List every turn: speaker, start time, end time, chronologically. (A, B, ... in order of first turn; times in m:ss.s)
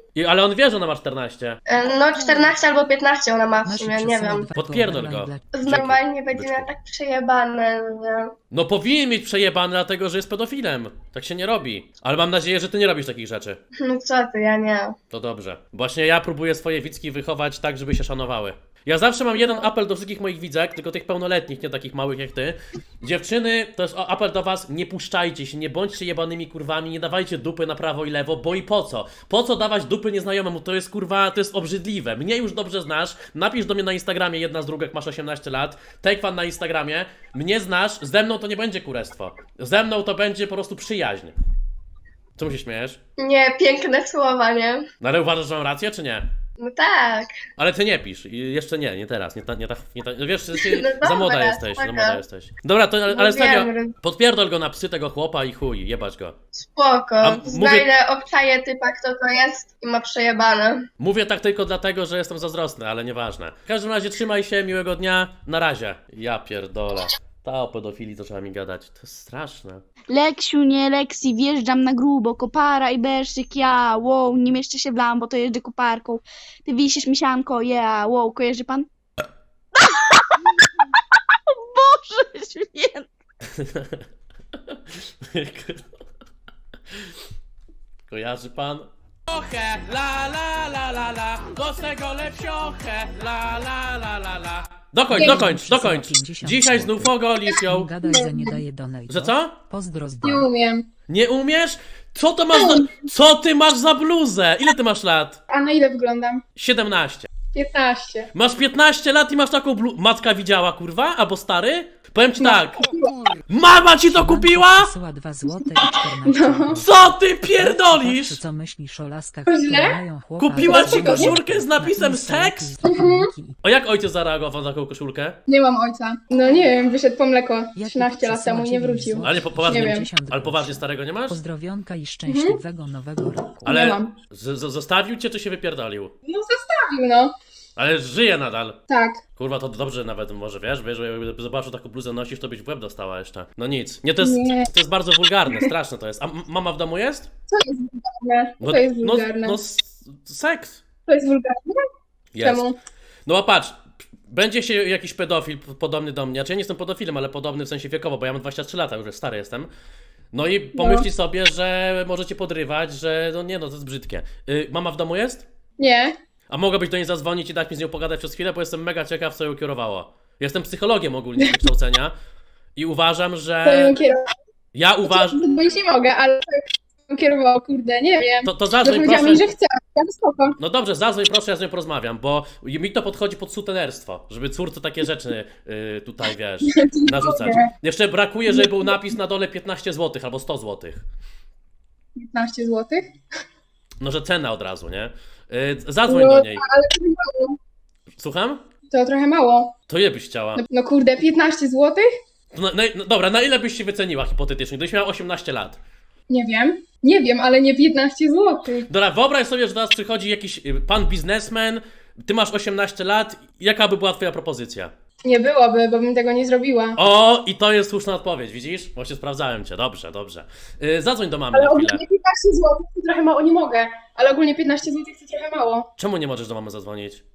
0:00.2-0:01.6 A
0:01.7-0:04.5 B
0:03.6-0:05.6 C
0:04.6-0:06.7 A
0:05.5-0:08.3 B
0:08.5-0:13.6 A
0:13.8-0:15.0 B
0:15.1-0:41.3 A
0:42.4-0:43.0 A
0:43.2-0:44.9 B
0:45.0-0:46.3 A
0:46.6-0:47.3 B
0:47.6-0:56.4 A
0:50.5-0:52.2 B
0:53.1-0:54.0 B
0:56.6-1:00.8 B
0:57.2-0:57.9 A
1:01.0-1:09.8 A
1:10.1-1:18.9 D
1:21.5-1:23.1 D
1:23.6-1:24.0 A
1:25.3-1:25.9 A
1:28.1-1:37.9 A
1:35.1-1:40.4 C
1:37.4-1:38.6 E
1:39.1-1:39.6 A
1:40.2-1:40.8 E
1:41.1-1:45.4 A
1:42.5-1:42.9 E
1:45.5-1:46.4 E
1:46.6-1:47.3 A
1:47.5-1:48.3 E
1:48.3-1:52.8 A
1:52.4-1:53.1 E
1:53.5-1:54.9 A
1:54.1-2:03.6 C
1:56.3-1:56.8 E
1:56.7-1:58.4 A
1:59.5-2:00.0 E
2:00.4-2:02.7 A
2:00.7-2:01.3 E
2:02.8-2:03.3 E
2:03.6-2:05.4 A
2:05.5-2:10.1 E
2:07.8-2:13.8 C
2:09.2-2:11.4 A
2:12.3-2:12.6 E
2:13.7-2:16.1 A
2:13.7-2:14.1 E
2:16.3-2:17.3 E
2:17.8-2:18.8 A
2:18.9-2:19.2 E
2:19.4-2:27.3 A
2:24.2-2:24.7 E
2:27.5-2:29.6 E
2:28.6-2:30.8 A
2:31.1-2:31.8 E
2:32.3-2:32.6 A
2:32.4-2:32.8 E
2:33.3-2:39.7 A
2:40.3-2:45.5 A
2:40.8-2:41.1 E
2:45.8-2:46.1 E
2:46.5-2:52.1 A
2:52.8-2:54.0 A
2:53.6-2:54.3 E
2:54.7-2:55.4 A
2:55.0-3:00.6 E
2:58.4-2:59.5 A
3:00.6-3:11.0 A
3:06.6-3:07.7 E
3:08.5-3:09.2 E
3:12.2-3:13.1 E
3:14.0-3:16.6 A
3:16.1-3:17.6 E
3:18.2-3:18.6 A
3:18.9-3:19.7 E
3:19.9-3:20.6 A
3:20.6-3:22.1 E
3:22.5-3:25.8 A
3:26.3-3:28.9 E
3:28.9-3:34.9 A
3:35.2-3:37.0 E
3:37.0-3:42.0 A
3:41.5-3:45.9 E
3:46.0-3:47.2 A